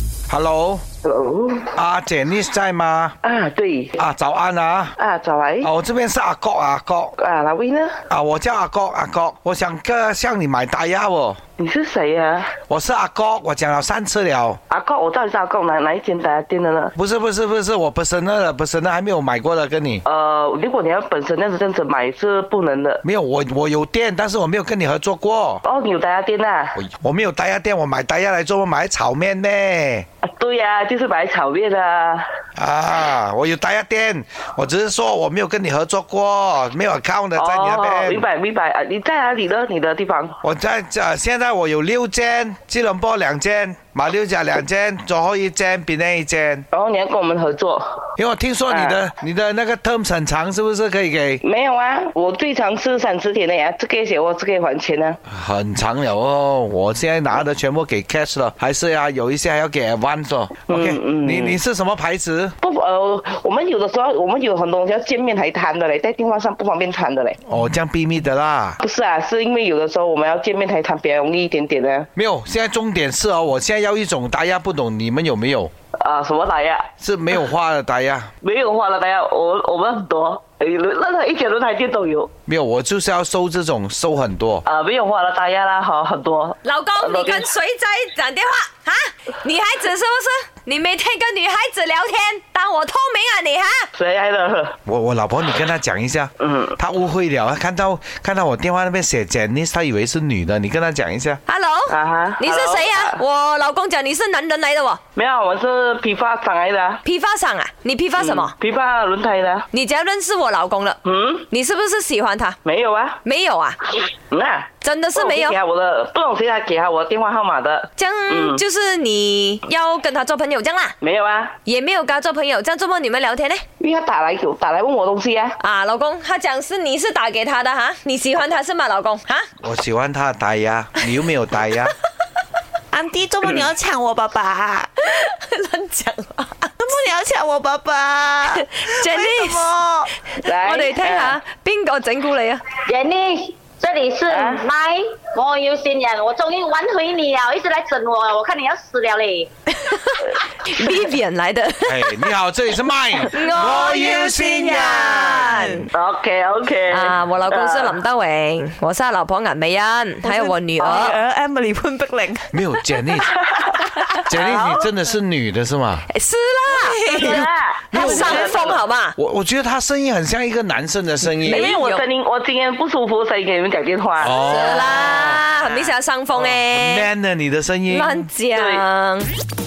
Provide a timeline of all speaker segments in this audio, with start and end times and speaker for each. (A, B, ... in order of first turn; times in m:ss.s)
0:00.3-0:00.8 A
0:01.0-0:01.7 B
0:01.8-0:03.2 A
0:03.2-0:04.0 B
0:04.0-0:05.0 A
0:05.0-0:05.7 B
0:05.6-0:07.2 A
0:07.2-0:08.0 B
0:08.1-0:11.4 A
0:11.6-0:12.5 B
0:12.7-0:14.6 A
0:14.7-0:16.9 B
0:17.0-0:20.0 A
0:20.0-0:23.0 B
0:23.0-0:25.6 A
0:25.6-0:26.8 B
0:26.8-0:30.1 A
0:30.2-0:32.3 B
0:32.6-0:38.2 A
0:37.4-0:40.4 B
0:40.4-0:46.7 A
0:46.7-0:48.0 B
0:48.2-0:51.4 A
0:48.7-0:49.0 B
0:51.4-0:55.2 B
0:55.3-1:02.6 A
1:00.7-1:01.6 B
1:02.6-1:07.4 B
1:07.5-1:08.8 A
1:08.8-1:12.1 B
1:12.2-1:15.7 A
1:16.0-1:16.9 B
1:17.0-1:18.3 A
1:18.4-1:22.3 B
1:22.5-1:24.6 A
1:24.6-1:27.5 B
1:26.6-1:33.9 C
1:34.0-1:34.8 B
1:34.9-1:41.4 A
1:36.4-1:36.8 B
1:41.5-1:45.0 C
1:41.9-1:43.2 B
1:45.2-1:47.0 B
1:47.0-1:48.5 C
1:48.2-1:49.7 B
1:49.7-1:51.0 C
1:51.0-1:51.5 B
1:51.5-1:52.6 C
1:52.6-1:53.2 B
1:53.2-1:53.8 C
1:54.3-1:58.6 B
1:54.8-1:55.6 C
1:58.0-2:01.0 C
2:01.0-2:01.6 B
2:01.7-2:03.6 C
2:03.8-2:05.6 B
2:05.6-2:09.5 C
2:09.6-2:11.9 A
2:12.9-2:14.9 D
2:15.0-2:16.9 C
2:16.8-2:20.1 D
2:18.5-2:19.7 C
2:20.4-2:22.6 C
2:20.4-2:21.4 B
2:22.8-2:29.5 E
2:24.3-2:24.6 B
2:29.8-2:32.3 C
2:31.8-2:35.5 A
2:33.2-2:35.9 C
2:35.2-2:35.8 D
2:35.9-2:38.0 B
2:36.9-2:41.2 C
2:40.2-2:42.5 D
2:42.5-2:43.3 A
2:43.2-2:44.9 B
2:44.3-2:46.0 A
2:46.1-2:49.2 C
2:46.7-2:47.2 D
2:47.0-2:48.8 B
2:47.2-2:51.7 A
2:48.0-2:48.6 D
2:51.2-2:52.0 C
2:51.5-2:54.6 B
2:54.2-2:55.4 A
2:54.4-2:57.1 C
2:56.3-2:58.3 A
2:57.9-2:59.3 C
2:58.5-2:58.8 B